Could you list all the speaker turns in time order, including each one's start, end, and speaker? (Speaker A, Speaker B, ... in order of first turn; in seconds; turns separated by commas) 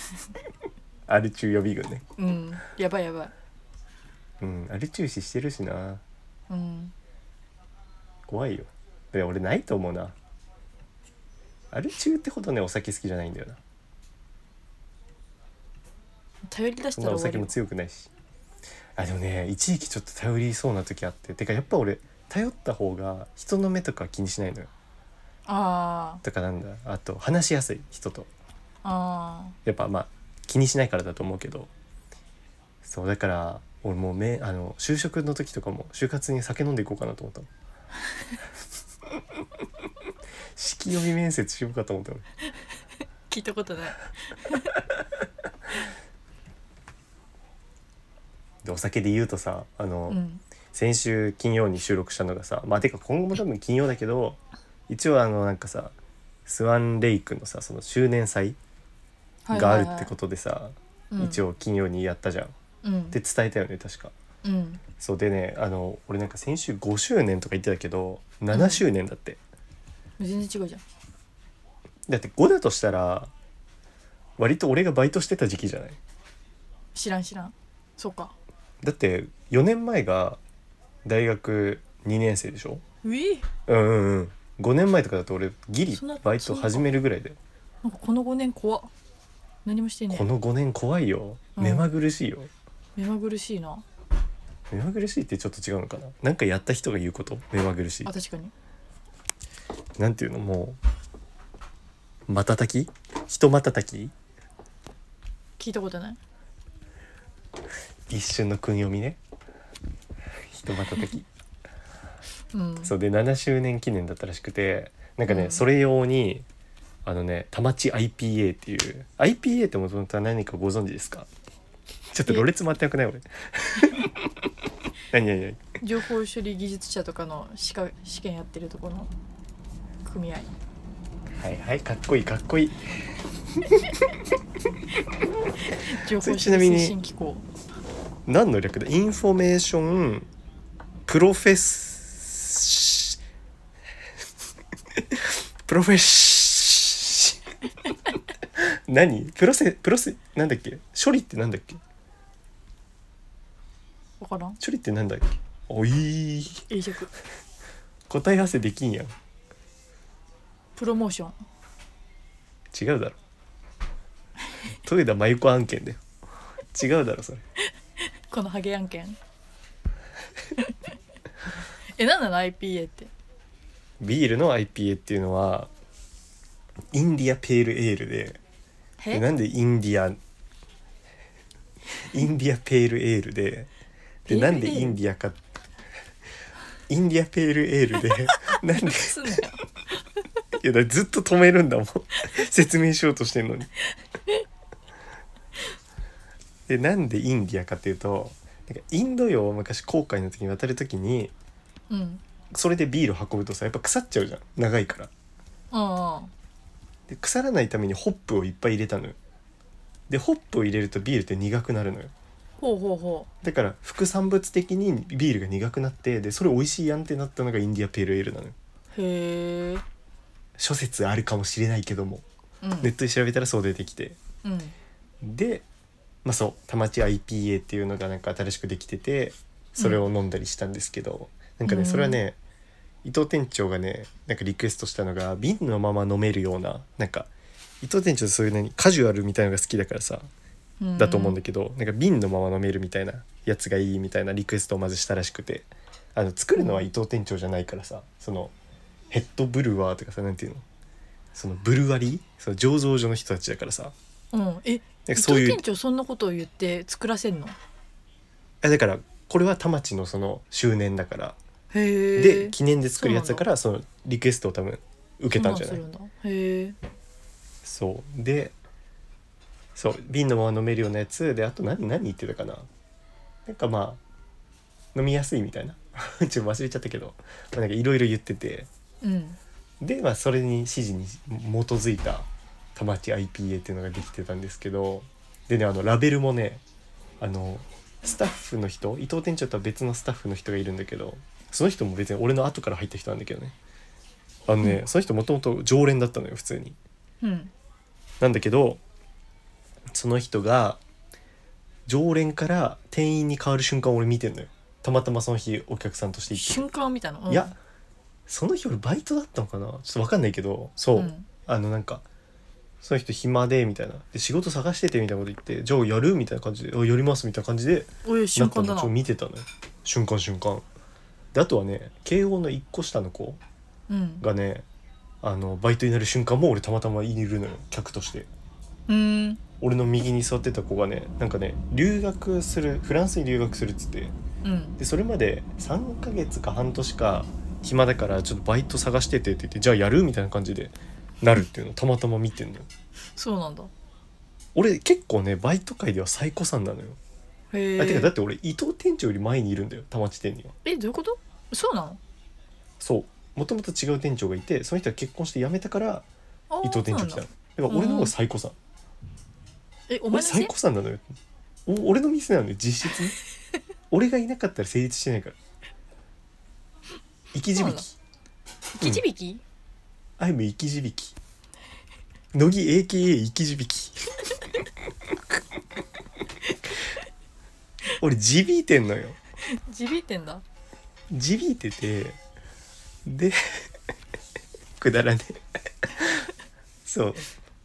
Speaker A: 1.1-2.0, Speaker B: 2.2-3.3, Speaker A: 4.4-6.0, Speaker B: 6.5-6.9, Speaker A: 8.3-10.1, Speaker A: 11.7-13.6, Speaker B: 16.5-17.5, Speaker A: 17.0-18.1, Speaker A: 19.0-24.7, Speaker B: 25.5-26.2, Speaker A: 26.2-28.3, Speaker B: 28.8-29.6, Speaker A: 29.6-31.7, Speaker A: 32.8-37.5, Speaker A: 40.6-42.2, Speaker B: 43.3-44.7, Speaker A: 48.6-50.2, Speaker B: 50.1-50.4, Speaker A: 50.7-55.9, Speaker A: 56.5-58.6, Speaker B: 59.5-60.1, Speaker A: 59.5-62.5, Speaker B: 61.1-61.4, Speaker B: 62.8-63.2, Speaker A: 63.1-64.1, Speaker B: 64.4-64.8, Speaker A: 65.0-69.4, Speaker B: 68.5-68.8, Speaker B: 70.2-70.8, Speaker A: 72.1-73.3, Speaker A: 74.4-76.0, Speaker B: 77.0-78.3, Speaker A: 78.8-80.4, Speaker A: 81.0-82.8, Speaker B: 83.0-83.5, Speaker A: 83.7-87.4, Speaker B: 85.9-86.8, Speaker B: 87.8-88.9, Speaker B: 89.7-90.3, Speaker A: 90.1-92.5, Speaker B: 91.6-91.9, Speaker B: 93.0-93.8, Speaker A: 94.7-98.1, Speaker B: 98.0-98.5, Speaker A: 100.0-100.8, Speaker A: 102.3-104.1, Speaker B: 105.6-106.2, Speaker A: 108.1-109.2, Speaker A: 110.5-111.3, Speaker B: 112.5-112.9, Speaker A: 112.8-116.5, Speaker B: 115.3-115.6, Speaker A: 117.1-121.3, Speaker A: 122.1-124.3, Speaker A: 125.1-125.8, Speaker B: 125.8-129.1, Speaker B: 130.0-130.5, Speaker A: 131.4-132.8, Speaker A: 133.6-134.1, Speaker B: 135.6-137.5, Speaker A: 136.2-137.0, Speaker A: 138.3-140.3, Speaker A: 141.1-143.2, Speaker A: 145.0-147.4, Speaker A: 148.6-151.8, Speaker B: 154.2-154.6, Speaker A: 154.6-156.7, Speaker B: 156.7-157.1, Speaker A: 158.1-159.1, Speaker B: 160.8-161.4, Speaker A: 162.7-163.2, Speaker A: 164.7-166.0, Speaker A: 166.7-167.4, Speaker B: 168.0-169.2, Speaker B: 172.0-173.1, Speaker A: 174.0-175.7, Speaker A: 176.9-178.4, Speaker A: 179.1-180.2, Speaker A: 182.0-183.7, Speaker A: 184.3-185.4, Speaker B: 184.3-185.0, Speaker A: 186.9-189.4, Speaker B: 188.7-189.6, Speaker A: 190.6-193.7, Speaker A: 196.7-201.3, Speaker B: 201.9-202.2, Speaker A: 202.5-205.1, Speaker B: 205.7-206.3, Speaker A: 207.1-209.2, Speaker A: 210.1-212.1, Speaker B: 212.6-213.3, Speaker A: 213.4-218.6, Speaker B: 218.9-219.8, Speaker A: 220.6-222.2, Speaker B: 222.6-222.9, Speaker A: 222.8-224.2, Speaker B: 224.4-224.7, Speaker A: 225.2-225.7, Speaker A: 226.2-232.4, Speaker B: 231.7-232.2, Speaker A: 233.0-237.3, Speaker A: 237.8-240.3, Speaker B: 240.8-241.4, Speaker A: 241.0-248.5, Speaker B: 246.6-246.9, Speaker A: 249.1-250.6, Speaker A: 251.3-253.9, Speaker B: 254.3-257.6, Speaker A: 255.1-255.6, Speaker A: 258.6-261.4, Speaker B: 261.7-263.5, Speaker A: 262.2-265.8, Speaker B: 265.3-266.8, Speaker A: 267.6-268.6, Speaker A: 269.8-272.7, Speaker A: 273.5-274.0, Speaker A: 274.9-278.7, Speaker B: 279.0-279.4, Speaker A: 279.8-286.6, Speaker A: 287.2-293.6, Speaker A: 294.5-296.8, Speaker B: 297.2-297.5, Speaker A: 298.2-298.8, Speaker A: 299.9-300.8, Speaker A: 301.9-306.6, Speaker B: 306.3-307.5, Speaker A: 307.3-307.6, Speaker A: 308.3-312.1, Speaker B: 310.9-311.3, Speaker A: 312.8-320.6, Speaker B: 318.0-318.9, Speaker A: 321.3-323.4, Speaker B: 323.9-324.2, Speaker A: 324.2-324.6, Speaker A: 325.2-328.3, Speaker B: 328.9-329.4, Speaker A: 329.6-334.1, Speaker B: 334.4-334.8, Speaker A: 334.8-342.7, Speaker B: 343.2-343.7, Speaker A: 344.6-347.0, Speaker B: 347.5-348.1, Speaker A: 347.8-350.6, Speaker B: 350.6-352.0, Speaker A: 352.8-356.1, Speaker B: 356.5-358.1, Speaker A: 356.6-358.6, Speaker B: 359.9-360.5, Speaker A: 360.1-361.0, Speaker A: 361.7-363.2, Speaker A: 363.9-365.4, Speaker A: 367.3-368.0, Speaker B: 367.6-367.8, Speaker B: 368.8-369.4, Speaker A: 370.2-371.2, Speaker A: 372.3-374.1, Speaker A: 377.9-379.2, Speaker B: 379.5-380.4, Speaker A: 381.1-382.2, Speaker A: 383.1-383.7, Speaker A: 384.8-386.3, Speaker A: 386.9-387.2